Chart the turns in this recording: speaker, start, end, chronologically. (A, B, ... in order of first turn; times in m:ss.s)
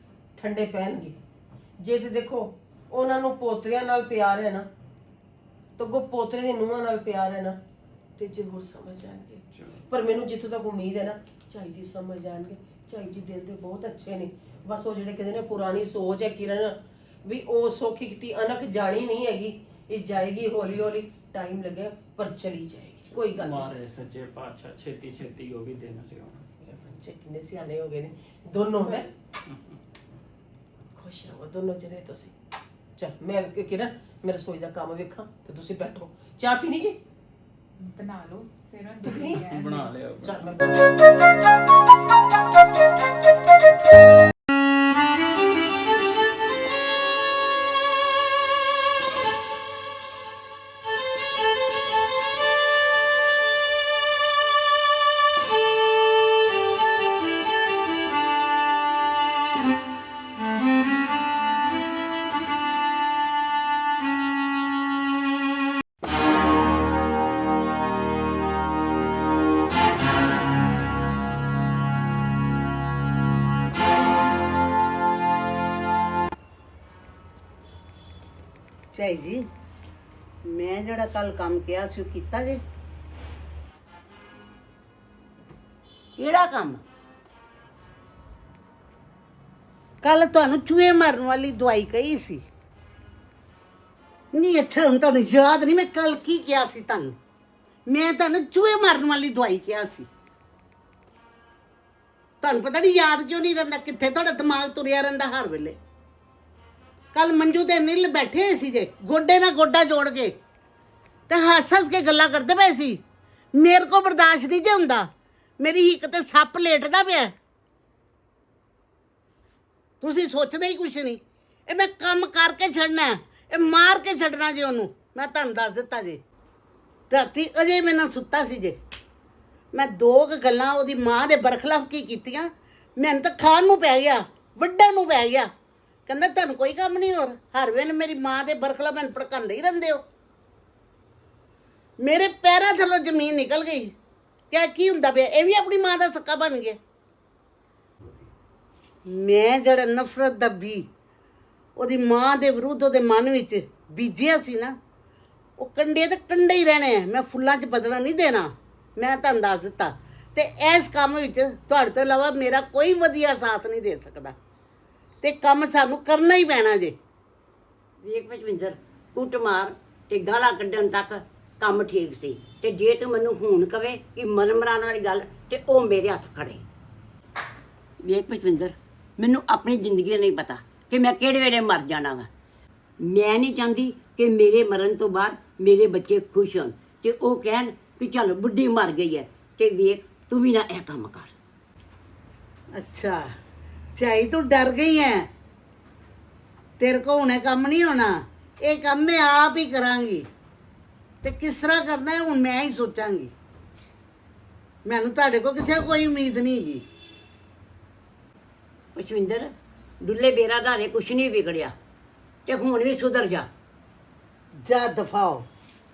0:00.4-0:01.2 A
0:01.8-0:04.7 A
0:05.8-0:07.6 A
0:08.2-0:23.7 A
0:23.3-0:26.5 B
0:26.6-0:29.1 A
0:31.0-0:32.3 A
0:33.0-0:37.0 A
0:37.8-0:39.8 C
0:39.0-0:40.7 A
0:39.5-0:40.4 B
1:18.9-1:19.5 D
1:20.4-1:22.6 D
1:26.2-1:26.5 E
1:26.4-1:26.8 D
1:30.0-1:32.4 D
1:34.3-1:37.2 D
1:37.9-1:40.1 D
1:42.4-1:45.8 D
1:47.1-1:50.4 D
1:51.3-1:53.0 D
1:53.6-1:57.3 D
2:00.0-2:06.2 D
2:07.1-2:08.8 D
2:09.7-2:15.5 D
2:16.1-2:20.0 D
2:22.0-2:23.9 D
2:24.5-2:26.8 D
2:29.1-2:30.9 D
2:31.8-2:34.8 D
2:35.6-2:44.4 D
2:45.2-2:47.0 D
2:48.0-2:56.6 E
2:58.0-3:02.3 E
3:03.0-3:11.3 E
3:12.7-3:13.3 D
3:14.0-3:15.3 D
3:16.8-3:20.3 D
3:21.2-3:23.3 D
3:24.8-3:26.8 D
3:29.0-3:31.8 E
3:32.5-3:33.5 E
3:34.6-3:35.5 D